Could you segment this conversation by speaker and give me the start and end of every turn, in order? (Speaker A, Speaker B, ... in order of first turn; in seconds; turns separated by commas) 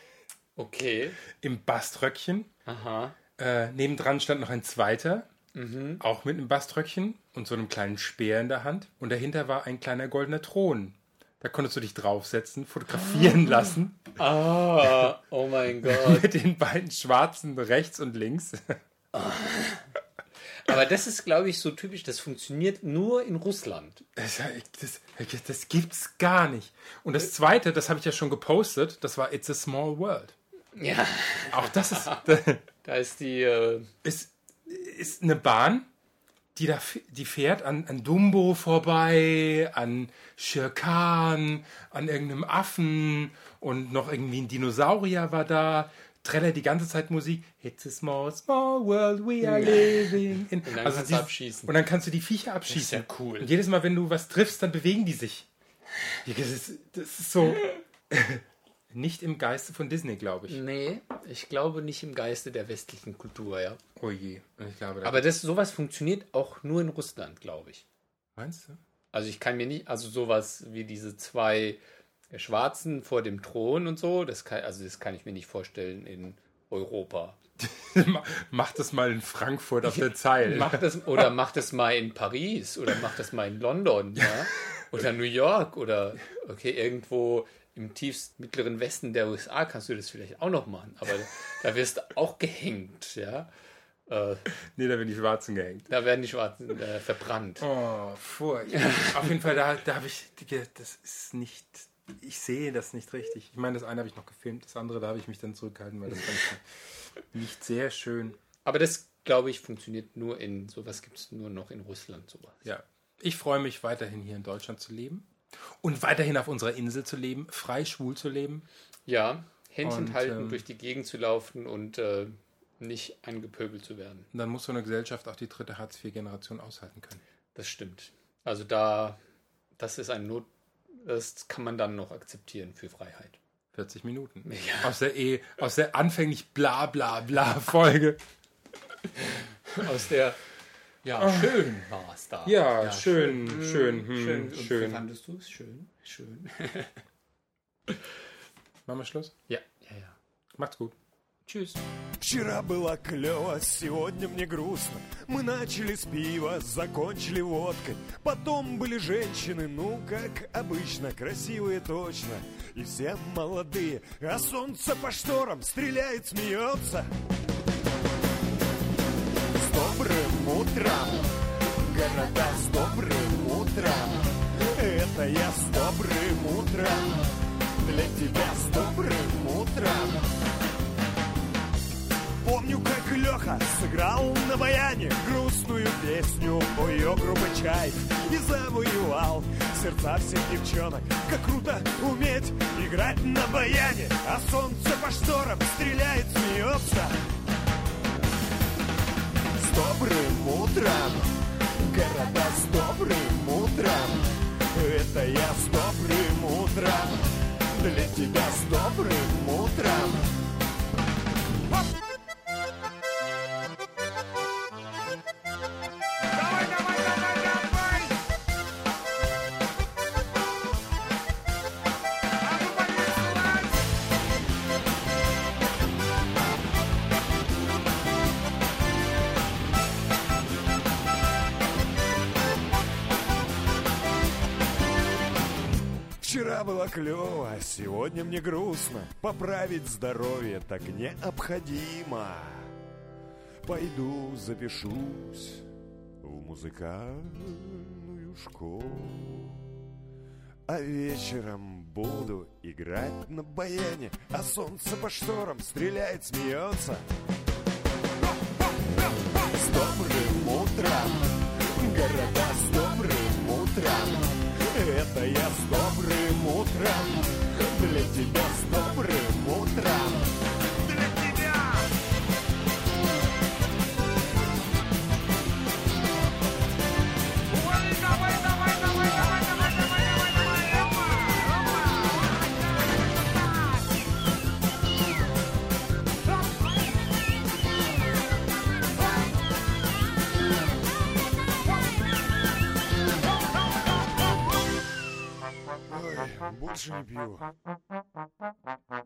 Speaker A: 0.6-1.2, Speaker B: 1.4-2.5, Speaker A: 2.7-3.2, Speaker B: 3.4-5.3, Speaker A: 5.5-6.0, Speaker B: 6.0-14.0, Speaker A: 14.2-16.3, Speaker B: 15.9-18.8, Speaker A: 19.1-19.9, Speaker A: 20.7-24.1, Speaker B: 24.2-30.4, Speaker A: 30.8-33.9, Speaker B: 31.5-32.6, Speaker B: 34.0-35.9, Speaker B: 36.5-55.5, Speaker A: 49.4-51.7, Speaker A: 52.7-53.5, Speaker B: 56.2-60.6, Speaker A: 60.5-63.8, Speaker B: 64.0-65.2, Speaker A: 65.0-67.8, Speaker B: 68.4-68.8, Speaker A: 69.1-71.8, Speaker A: 72.3-77.4, Speaker B: 77.6-80.8, Speaker A: 79.8-93.5, Speaker A: 94.1-94.5, Speaker B: 94.8-95.9, Speaker A: 95.9-97.7, Speaker B: 97.6-106.6, Speaker A: 98.8-99.2, Speaker B: 107.3-108.4, Speaker A: 108.7-112.7, Speaker B: 112.7-115.3, Speaker B: 115.8-118.7, Speaker A: 119.1-124.3, Speaker B: 119.8-120.6, Speaker B: 124.3-127.2, Speaker A: 127.5-129.2, Speaker A: 129.8-133.4, Speaker B: 133.7-138.2, Speaker A: 134.5-134.9, Speaker A: 139.7-140.4, Speaker A: 141.0-147.0, Speaker B: 141.2-141.6, Speaker B: 142.4-145.0, Speaker B: 148.9-149.3, Speaker A: 149.5-150.2, Speaker B: 150.6-150.9, Speaker A: 151.5-151.8, Speaker C: 152.2-167.1, Speaker C: 169.5-180.3, Speaker C: 182.4-197.2, Speaker C: 199.5-210.4, Speaker C: 216.5-217.9, Speaker A: 222.6-223.5, Speaker C: 236.2-242.7, Speaker C: 243.6-245.7, Speaker C: 246.2-249.7, Speaker C: 250.7-257.1, Speaker C: 258.6-271.9, Speaker C: 277.7-279.4, Speaker A: 279.7-280.2, Speaker C: 280.3-281.4, Speaker C: 295.9-297.5